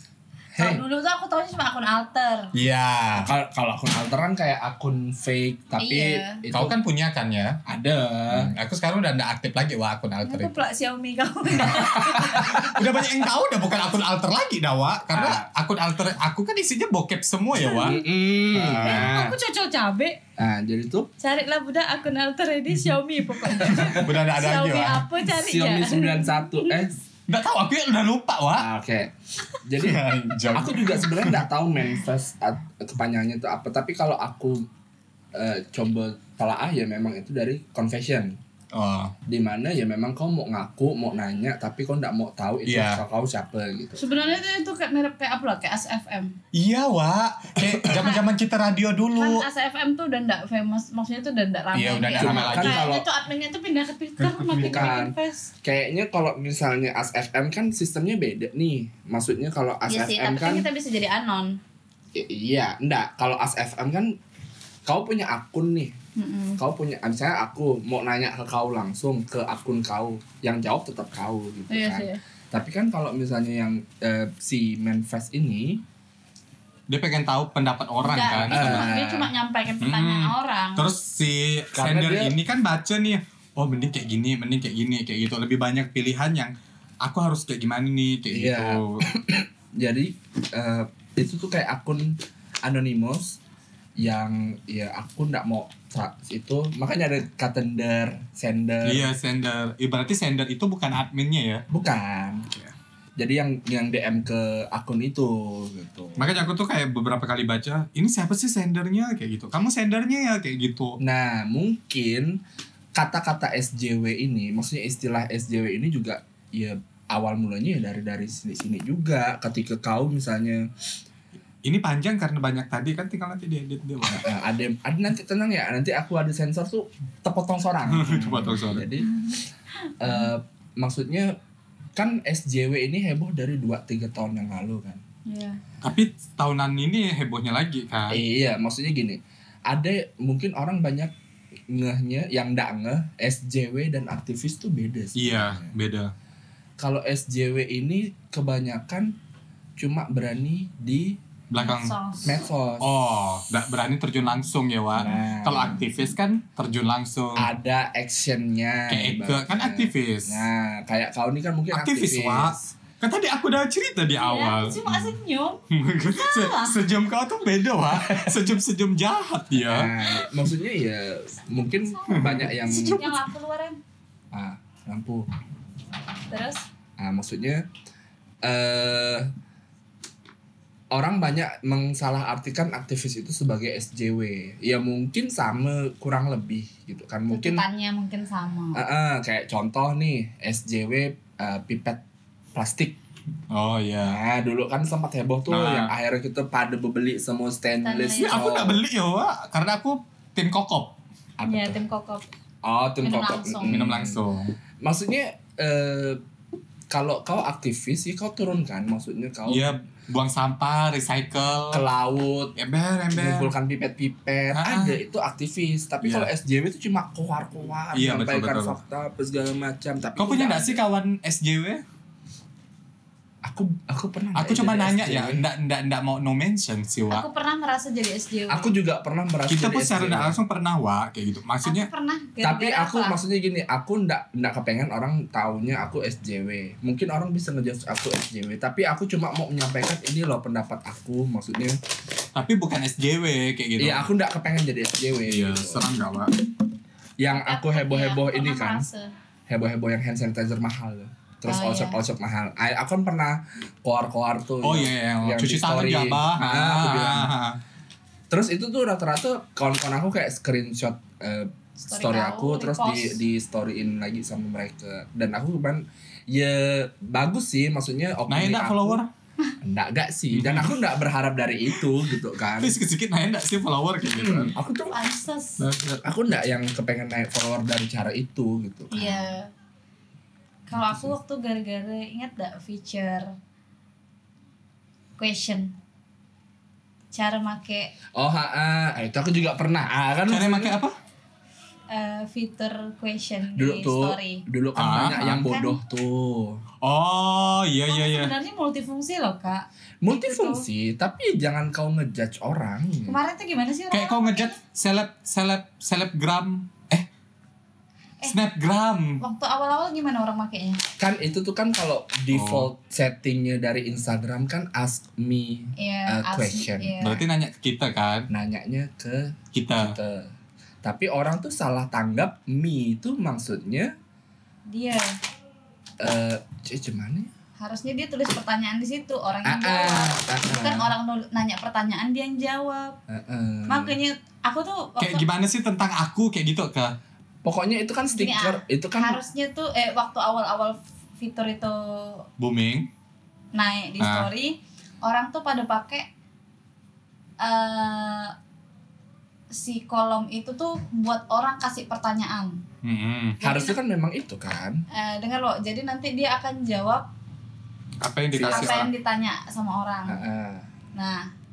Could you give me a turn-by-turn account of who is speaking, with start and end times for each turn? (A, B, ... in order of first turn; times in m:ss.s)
0:00.6-0:00.8 A
0:00.6-0:02.5 B
0:02.5-0:03.3 C
0:03.2-0:06.8 A
0:05.8-0:06.4 B
0:06.5-0:07.6 C
0:07.6-0:08.5 A
0:08.3-0:10.6 C
0:10.2-0:12.7 B
0:11.7-0:12.7 A
0:12.2-0:19.2 C
0:15.1-0:15.4 A
0:17.6-0:18.0 B
0:17.6-0:19.3 A
0:18.8-0:20.2 B
0:20.4-0:21.1 A
0:21.2-0:26.8 B
0:23.5-0:24.0 A
0:23.7-0:25.0 C
0:25.3-0:26.9 A
0:27.3-0:28.7 C
0:28.6-0:29.1 A
0:29.6-0:30.0 A
0:29.8-0:31.4 C
0:30.5-0:34.6 A
0:35.3-0:38.4 A
0:38.7-0:39.1 C
0:39.3-0:44.0 A
0:42.6-0:43.0 C
0:44.0-0:46.4 B
0:46.5-0:49.4 C
0:49.2-0:55.5 B
0:51.7-0:52.8 C
0:52.2-0:53.0 A
0:54.2-0:55.0 C
0:54.6-1:00.7 A
0:59.9-1:01.6 B
1:02.1-1:04.2 A
1:04.8-1:05.9 A
1:06.2-1:06.6 B
1:06.6-1:15.8 A
1:11.7-1:12.2 B
1:16.9-1:18.9 C
1:18.0-1:20.9 B
1:18.3-1:19.3 A
1:19.8-1:29.0 C
1:21.8-1:22.3 A
1:28.3-1:33.4 A
1:34.0-1:39.1 A
1:38.8-1:41.6 C
1:41.7-1:46.3 A
1:46.2-1:51.0 C
1:51.0-1:52.4 A
1:52.9-2:00.7 A
2:01.6-2:04.3 C
2:04.0-2:09.2 A
2:07.9-2:08.9 C
2:10.0-2:11.3 A
2:12.0-2:15.0 A
2:15.2-2:15.6 B
2:15.8-2:18.2 C
2:18.1-2:21.1 A
2:21.7-2:25.7 A
2:25.2-2:26.1 C
2:26.8-2:29.1 A
2:29.8-2:31.2 A
2:31.5-2:31.9 C
2:31.6-2:32.4 B
2:32.2-2:32.9 A
2:32.8-2:37.5 C
2:35.0-2:35.8 A
2:37.4-2:42.7 A
2:38.9-2:40.5 C
2:41.7-2:45.2 C
2:44.2-2:46.8 B
2:45.7-2:50.2 C
2:47.9-2:48.3 A
2:49.7-2:53.1 A
2:52.0-2:53.8 B
2:52.1-2:53.0 C
2:54.3-2:55.3 A
2:56.3-2:56.6 B
2:57.0-2:57.6 A
2:58.4-2:59.3 A
3:00.9-3:07.6 A
3:07.3-3:08.8 B
3:08.7-3:12.0 A
3:12.5-3:13.0 A
3:13.5-3:14.2 C
3:14.0-3:18.8 A
3:15.5-3:15.9 C
3:17.8-3:18.4 B
3:18.2-3:21.0 C
3:21.4-3:21.8 A
3:21.4-3:22.3 B
3:22.6-3:24.2 A
3:23.0-3:23.7 B
3:23.6-3:24.6 C
3:24.8-3:26.2 A
3:26.9-3:29.7 A
3:29.5-3:31.8 C
3:31.7-3:32.6 A
3:32.6-3:33.5 C
3:33.1-3:40.8 A
3:34.5-3:35.0 C
3:36.0-3:36.3 C
3:37.9-3:38.8 C
3:40.2-3:41.8 C
3:43.4-3:45.4 A
3:44.3-3:47.2 C
3:47.1-3:48.7 B
3:48.5-3:50.3 A
3:49.5-3:51.9 C
3:51.6-3:53.2 B
3:52.4-4:01.8 A
4:02.3-4:04.1 C
4:03.8-4:05.9 A
4:05.2-4:06.3 C
4:07.2-4:08.9 A
4:07.3-4:09.1 B
4:09.5-4:17.3 A
4:11.5-4:12.0 B
4:14.6-4:17.6 C
4:18.3-4:29.0 A
4:21.8-4:23.2 B
4:28.3-4:29.1 C
4:29.6-4:32.8 A
4:30.3-4:30.8 C
4:32.6-4:34.5 C
4:34.1-4:35.0 A
4:34.9-4:35.6 B
4:35.6-4:36.0 C
4:36.0-4:39.3 A
4:38.9-4:39.5 B
4:40.7-4:43.3 B
4:40.7-4:41.1 A
4:45.2-4:45.8 B
4:47.1-4:47.9 B
4:48.1-4:50.8 A
4:50.3-4:50.9 C
4:51.9-4:54.4 B
4:53.6-4:56.6 A
4:54.8-4:55.4 C
4:55.4-4:55.8 B
4:56.8-4:58.3 C
4:57.9-5:00.6 B
5:00.0-5:03.2 A
5:03.1-5:04.6 B
5:03.9-5:07.1 C
5:08.3-5:09.2 C
5:09.2-5:10.8 B
5:11.0-5:16.9 A
5:12.3-5:12.7 C
5:15.8-5:17.2 B
5:17.0-5:18.3 C
5:18.3-5:20.3 A
5:19.5-5:20.0 C
5:20.8-5:23.9 A
5:24.7-5:25.2 B
5:26.0-5:27.3 A
5:27.6-5:32.9 B
5:29.4-5:30.9 A
5:33.1-5:34.0 A
5:33.7-5:35.2 B
5:35.0-5:36.9 C
5:37.4-5:39.2 A
5:38.1-5:42.2 B
5:42.4-5:42.9 C
5:43.5-5:46.1 B
5:44.0-5:44.3 C
5:47.4-5:48.3 B
5:49.5-5:52.6 B
5:52.8-5:53.4 C
5:53.4-5:53.8 B
5:53.4-5:54.8 A
5:54.9-5:57.1 B
5:58.0-5:58.9 C
5:58.3-5:58.9 A
5:58.4-6:00.2 B
6:00.1-6:00.7 A
6:00.9-6:01.3 B